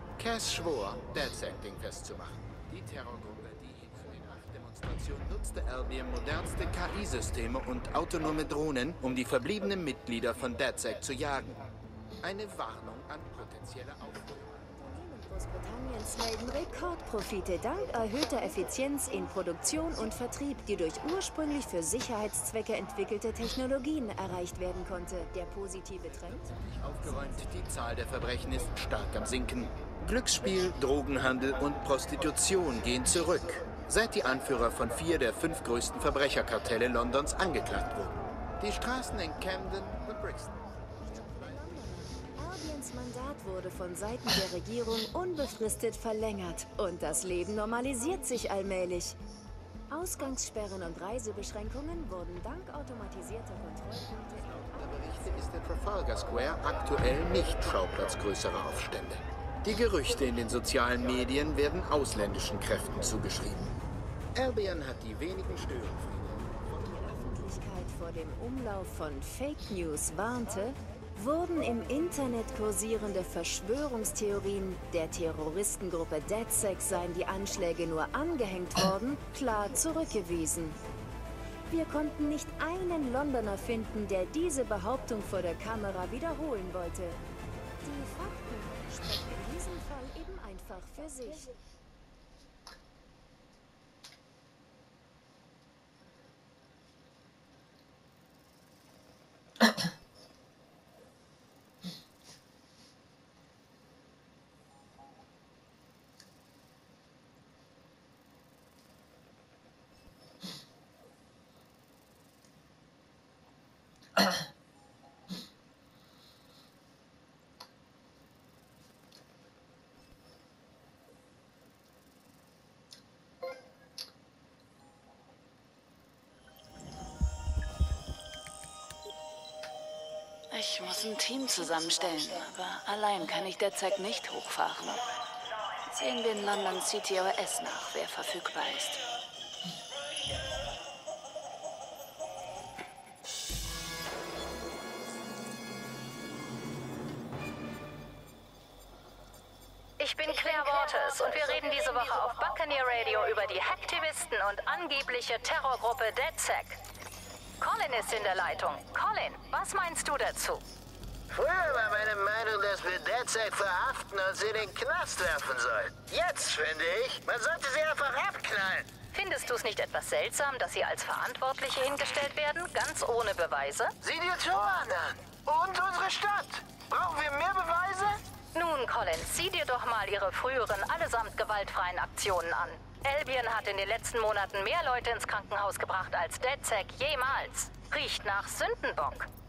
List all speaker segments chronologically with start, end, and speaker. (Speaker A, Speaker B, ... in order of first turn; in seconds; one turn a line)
Speaker A: 0.2-11.6
Speaker A: 12.2-14.7
Speaker B: 14.8-26.6
Speaker A: 26.6-40.6
Speaker B: 41.4-49.2
Speaker B: 49.9-55.3
Speaker A: 54.5-63.8
Speaker A: 64.3-66.5
Speaker B: 66.8-80.8
Speaker B: 81.7-87.2
Speaker B: 87.8-91.5
Speaker C: 130.5-135.0
Speaker C: 135.9-139.0
Speaker D: 150.0-156.8
Speaker D: 157.6-160.6
Speaker E: 161.3-168.9
Speaker D: 169.1-173.9
Speaker E: 174.0-178.2
Speaker D: 178.5-189.3